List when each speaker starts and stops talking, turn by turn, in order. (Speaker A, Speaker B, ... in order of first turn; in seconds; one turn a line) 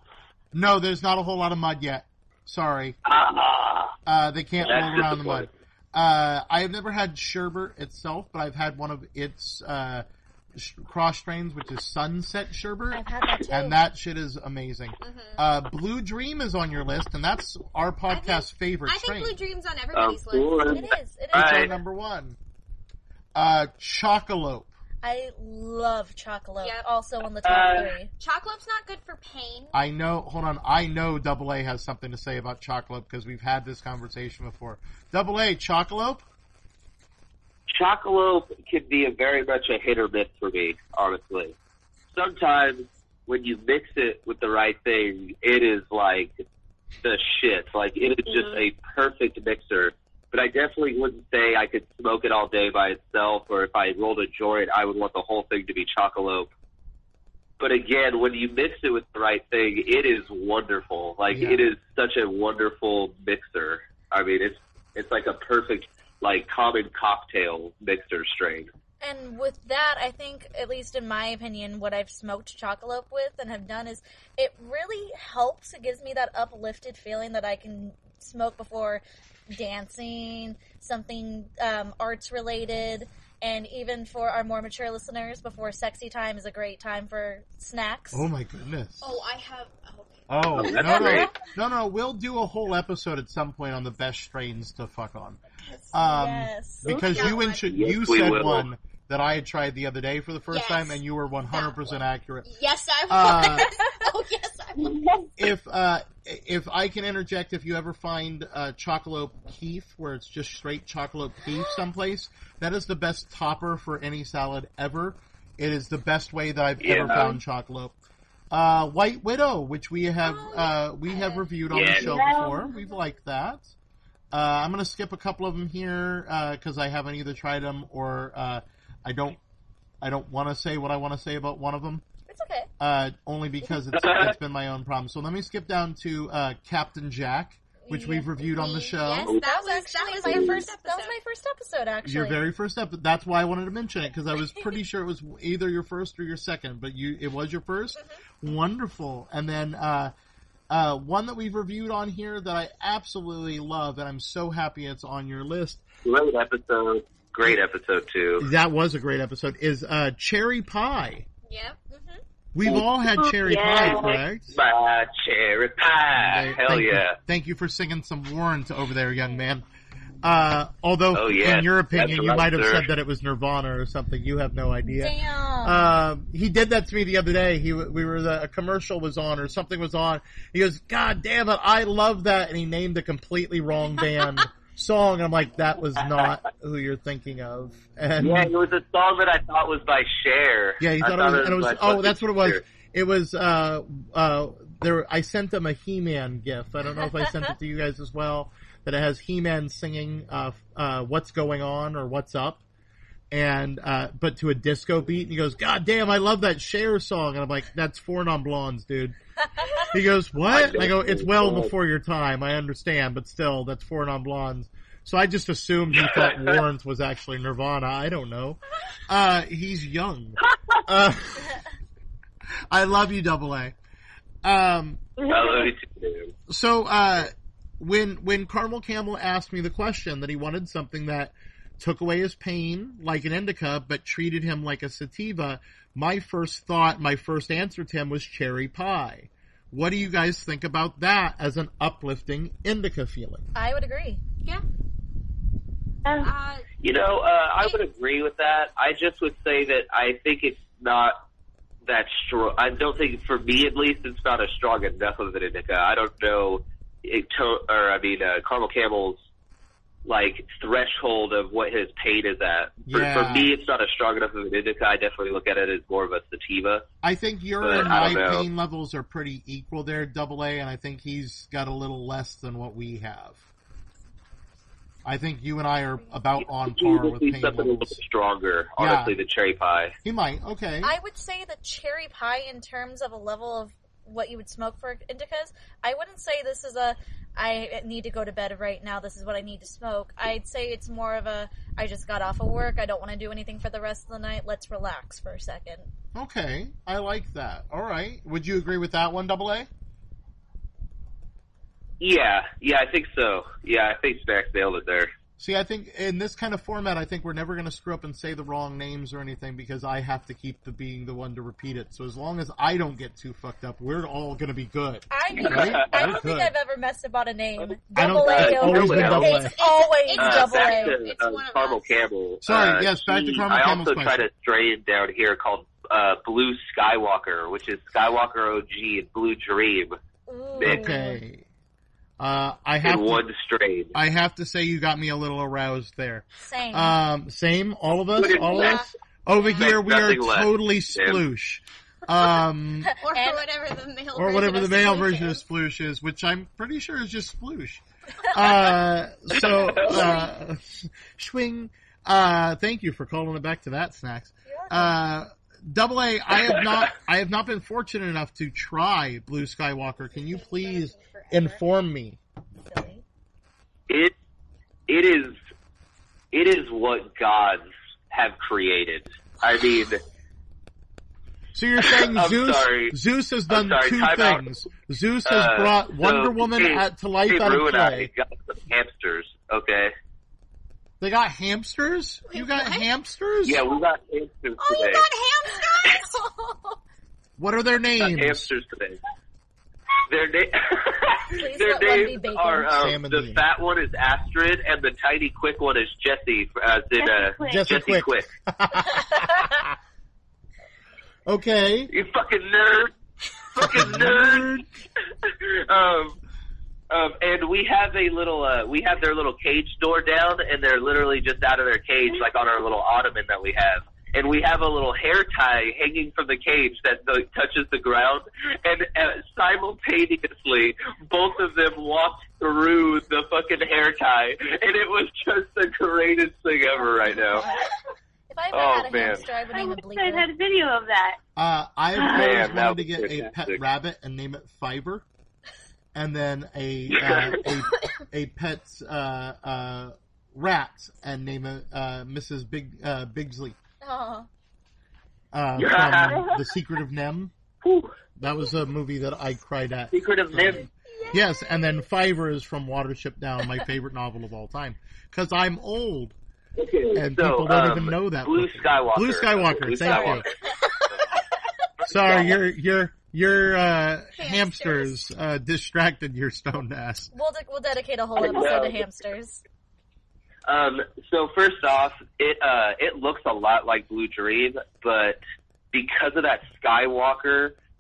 Speaker A: 0.5-3.0
Speaker B: 3.0-3.9
Speaker A: 4.0-19.4
Speaker B: 4.6-5.5
Speaker C: 12.9-13.8
Speaker D: 15.0-15.4
Speaker D: 18.1-20.9
Speaker B: 19.9-21.7
Speaker C: 20.7-21.7
Speaker A: 21.3-22.4
Speaker A: 23.3-24.7
Speaker C: 25.0-28.1
Speaker D: 26.6-26.9
Speaker B: 27.4-27.9
Speaker D: 28.2-29.8
Speaker A: 29.7-36.2
Speaker B: 37.7-41.5
Speaker B: 42.1-46.3
Speaker B: 47.0-56.5
Speaker E: 48.3-48.6
Speaker B: 57.6-68.7
Speaker A: 61.3-61.7
Speaker C: 69.0-88.3
Speaker A: 88.1-89.2
Speaker D: 89.0-91.0
Speaker A: 90.3-95.4
Speaker B: 90.5-91.3
Speaker C: 95.9-96.9
Speaker A: 95.9-102.5
Speaker E: 96.9-97.2
Speaker D: 96.9-97.7
Speaker B: 97.7-98.7
Speaker D: 100.5-105.0
Speaker A: 103.1-103.7
Speaker E: 104.9-105.3
Speaker A: 105.4-117.9
Speaker B: 116.8-117.3
Speaker A: 118.5-123.7
Speaker D: 120.2-121.8
Speaker B: 121.7-122.1
Speaker E: 121.9-122.7
Speaker D: 122.6-123.1
Speaker A: 124.3-129.4
Speaker A: 130.0-132.0
Speaker C: 132.3-132.7
Speaker A: 132.8-139.3
Speaker B: 133.9-134.3
Speaker C: 137.8-138.3
Speaker D: 138.5-141.2
Speaker C: 139.3-142.4
Speaker B: 140.2-140.6
Speaker A: 142.0-150.1
Speaker D: 147.9-148.2
Speaker A: 150.7-155.8
Speaker B: 156.0-158.5
Speaker A: 158.4-161.3
Speaker D: 161.5-161.9
Speaker C: 161.9-162.2
Speaker A: 162.5-164.5
Speaker E: 163.1-164.2
Speaker B: 163.7-167.2
Speaker A: 166.2-169.6
Speaker A: 170.2-188.5
Speaker B: 171.1-172.9
Speaker C: 174.8-175.9
Speaker B: 188.2-192.6
Speaker A: 190.8-202.6
Speaker A: 203.3-209.2
Speaker A: 209.9-221.6
Speaker B: 210.5-211.7
Speaker B: 215.9-216.6
Speaker B: 220.5-220.8
Speaker A: 222.7-223.7
Speaker A: 224.4-225.0
Speaker E: 225.2-225.7
Speaker B: 225.3-226.3
Speaker A: 226.5-243.5
Speaker C: 243.5-244.2
Speaker E: 246.0-246.3
Speaker D: 246.2-246.7
Speaker B: 246.8-251.2
Speaker B: 251.8-259.2
Speaker B: 260.0-266.9
Speaker A: 262.9-263.5
Speaker A: 267.0-273.4
Speaker B: 267.6-268.4
Speaker A: 275.0-278.0
Speaker B: 276.4-279.9
Speaker A: 278.8-279.1
Speaker A: 280.0-280.9
Speaker C: 280.8-295.9
Speaker A: 296.1-299.7
Speaker B: 302.0-305.1
Speaker A: 305.4-316.5
Speaker C: 315.1-320.9
Speaker B: 315.4-315.8
Speaker A: 317.9-319.5
Speaker B: 318.1-319.4
Speaker D: 319.1-322.0
Speaker B: 320.2-329.9
Speaker A: 322.4-324.2
Speaker C: 330.3-331.2
Speaker B: 330.6-330.9
Speaker A: 330.6-331.4
Speaker A: 332.2-333.2
Speaker B: 332.8-333.9
Speaker A: 333.9-342.9
Speaker C: 336.4-337.0
Speaker B: 338.1-338.9
Speaker B: 339.6-341.2
Speaker D: 343.0-345.4
Speaker C: 343.1-343.4
Speaker A: 344.1-362.2
Speaker B: 349.3-350.1
Speaker C: 349.9-350.2
Speaker C: 354.4-355.0
Speaker B: 356.5-356.8
Speaker D: 360.0-361.6
Speaker C: 362.6-363.0
Speaker B: 364.9-365.4
Speaker B: 366.3-370.0
Speaker A: 371.5-378.1
Speaker B: 371.8-372.9
Speaker B: 373.5-374.4
Speaker B: 375.2-379.9
Speaker A: 381.0-383.6
Speaker D: 382.3-382.9
Speaker B: 383.4-385.0
Speaker D: 384.6-386.8
Speaker A: 387.4-388.5
Speaker B: 388.0-389.0
Speaker B: 390.1-398.3
Speaker C: 391.3-392.7
Speaker A: 392.6-393.4
Speaker E: 397.0-397.7
Speaker A: 397.4-399.7
Speaker A: 401.2-401.9
Speaker B: 401.9-402.9
Speaker B: 403.5-404.6
Speaker A: 403.6-404.6
Speaker B: 405.2-406.2
Speaker B: 406.9-427.4
Speaker C: 427.1-427.6
Speaker C: 428.3-430.3
Speaker B: 428.5-429.2
Speaker E: 429.5-431.2
Speaker A: 431.4-435.0
Speaker E: 431.9-432.3
Speaker B: 432.1-433.6
Speaker A: 435.9-443.6
Speaker B: 436.9-437.5
Speaker C: 443.8-444.3
Speaker A: 445.3-447.3
Speaker B: 445.6-446.4
Speaker B: 447.6-447.9
Speaker A: 448.1-456.1
Speaker B: 449.9-450.7
Speaker D: 451.1-451.6
Speaker B: 456.6-460.3
Speaker A: 456.9-460.3
Speaker C: 459.9-460.2
Speaker B: 461.8-462.4
Speaker A: 461.8-467.1
Speaker D: 464.1-464.9
Speaker C: 467.1-469.4
Speaker B: 468.1-468.8
Speaker B: 470.4-475.2
Speaker B: 475.7-477.5